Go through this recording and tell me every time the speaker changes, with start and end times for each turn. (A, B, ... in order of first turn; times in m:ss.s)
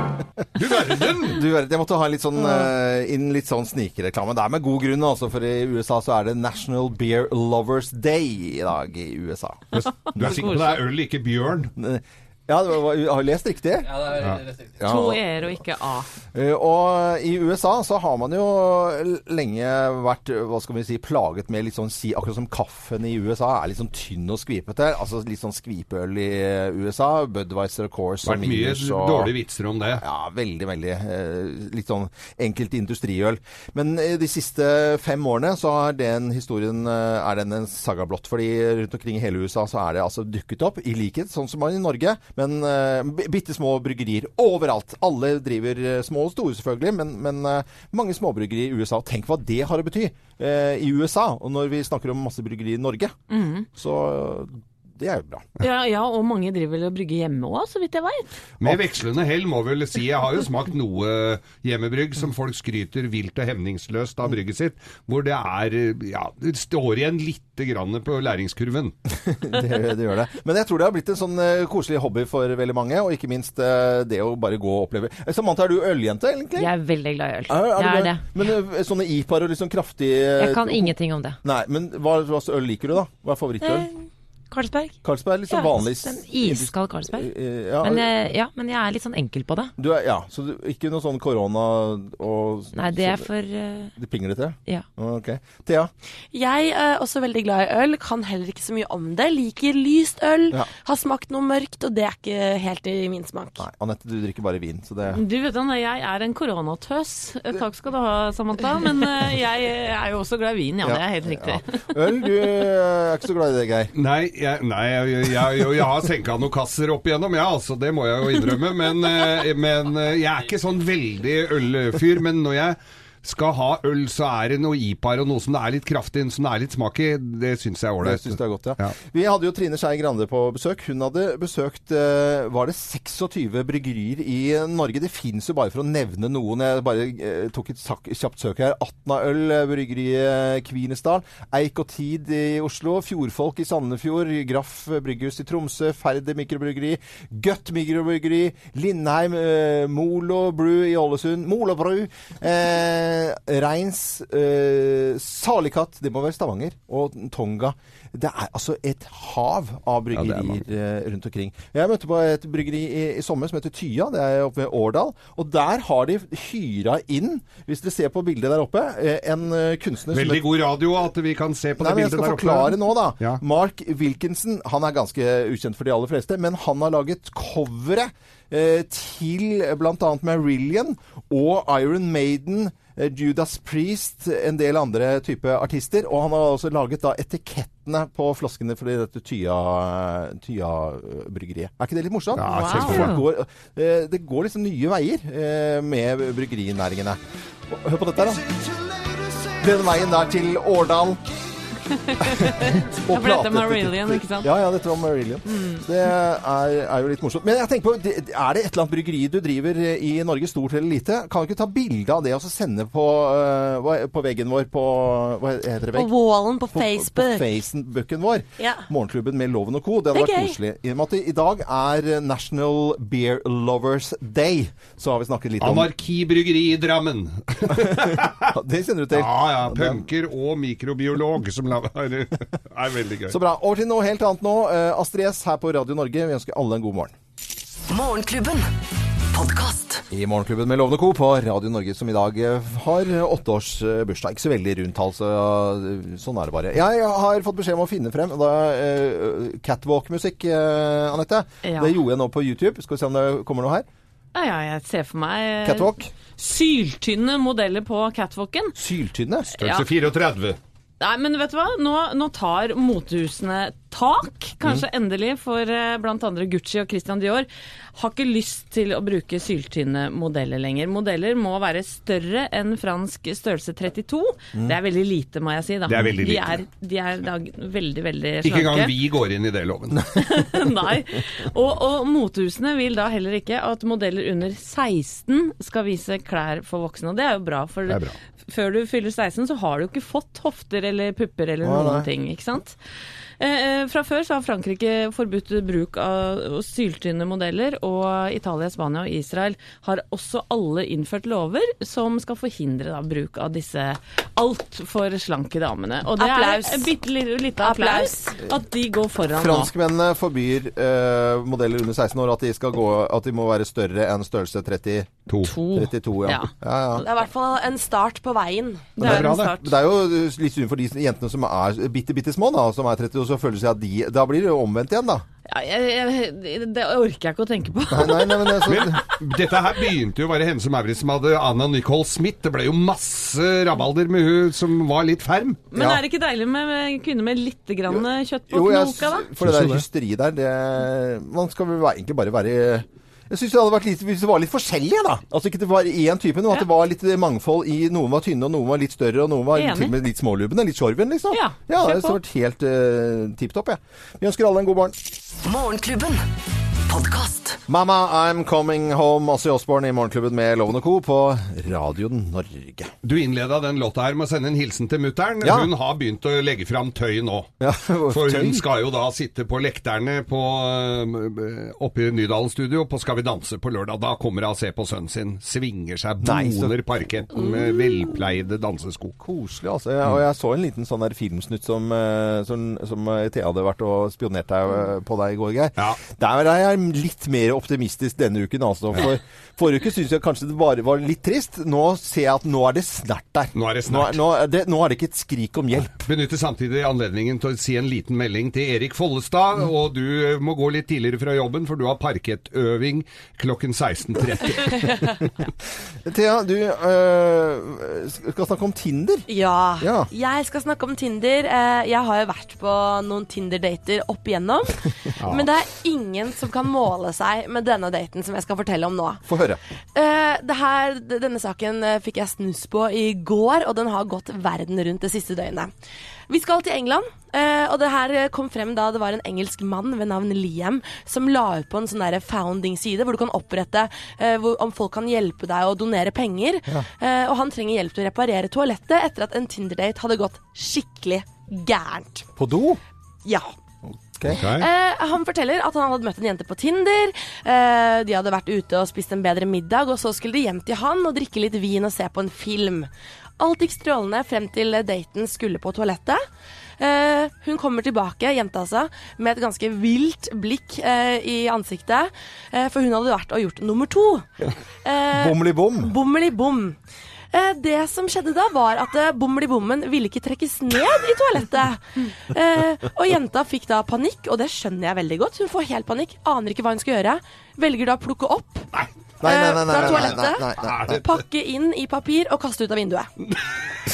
0:00.6-0:01.4 A
0:01.2-0:09.6 B
0:09.7-0:11.7 A
0:10.1-0:10.8 C
0:11.8-0:14.2 B
0:14.2-0:14.5 A
0:14.8-0:15.3 B
0:14.8-0:16.1 C
0:16.3-0:29.3 B
0:28.2-0:30.0 A
0:30.0-0:53.2 B
0:53.3-0:53.6 C
0:53.7-0:55.4 B
0:55.6-0:58.3 C
0:58.6-1:08.9 A
1:09.2-1:16.7 B
1:16.6-1:18.3 D
1:17.5-1:23.9 B
1:20.4-1:21.4 D
1:23.6-1:23.9 D
1:24.5-1:25.0 D
1:25.0-1:28.1 B
1:25.5-1:27.3 D
1:27.8-1:29.7 D
1:29.8-1:33.3 B
1:32.7-1:33.9 D
1:33.9-1:35.9 B
1:36.3-1:43.6 E
1:43.6-1:45.2 B
1:45.1-1:51.6 C
1:50.8-1:53.9 B
1:53.9-2:08.9 A
2:08.0-2:50.4 B
2:40.1-2:40.6 A
2:50.1-2:53.4 A
2:51.8-3:18.4 B
3:12.3-3:13.2 A
3:12.5-3:12.9 C
3:12.8-3:13.2 D
3:19.6-3:21.2 B
3:22.1-3:24.5 C
3:22.2-3:36.1 B
3:25.5-3:25.8 C
3:35.9-3:37.4 E
3:36.7-3:45.9 B
3:38.6-3:38.8 E
3:40.1-3:40.6 E
3:45.6-3:48.5 A
3:48.5-3:50.0 B
3:49.1-3:53.4 A
3:53.3-3:57.1 B
3:57.9-3:58.7 F
3:59.3-4:00.0 F
4:00.1-4:13.8 B
4:11.6-4:12.0 C
4:14.3-4:18.7 C
4:15.6-4:16.1 B
4:18.8-4:19.5 B
4:19.5-4:20.6 A
4:19.6-4:19.9 C
4:21.0-4:38.9 C
4:35.9-4:36.6 A
4:38.4-4:40.1 A
4:40.1-4:52.8 C
4:47.9-4:48.2 A
4:51.6-4:52.1 B
4:53.4-5:09.7 C
5:06.2-5:06.9 E
5:07.6-5:08.4 E
5:09.3-5:17.0 B
5:15.3-5:15.6 A
5:15.4-5:17.0 C
5:17.0-5:19.0 E
5:19.0-5:25.2 B
5:19.0-5:19.6 A
5:19.0-5:19.6 C
5:25.5-5:28.8 C
5:27.9-5:29.0 B
5:28.7-5:35.6 A
5:35.7-5:39.3 C
5:35.7-5:36.0 B
5:38.5-5:54.9 B
5:39.5-5:39.8 A
5:49.5-5:49.9 C
5:51.3-5:52.2 C
5:55.4-5:56.3 F
5:56.9-5:57.6 F
5:57.7-6:02.9 B
6:03.0-6:07.5 A
6:05.4-6:05.7 B
6:07.6-6:08.6 B
6:08.1-6:19.2 A
6:16.2-6:16.7 B
6:19.2-6:36.1 B
6:33.5-6:34.2 A
6:36.0-6:45.3 A
6:46.0-6:49.2 B
6:49.3-6:59.2 E
6:49.8-6:50.1 B
6:59.2-6:59.6 B
6:59.9-7:05.7 E
7:06.3-7:22.3 E
7:22.4-7:22.8 B
7:23.2-7:23.5 E
7:23.8-7:24.4 B
7:24.3-7:24.7 A
7:24.4-7:36.2 E
7:36.8-7:44.3 E
7:44.8-7:46.8 E
7:45.1-7:45.9 B
7:47.3-7:58.7 E
7:59.2-8:01.0 B
7:59.2-8:03.1 E
7:59.7-8:01.0 A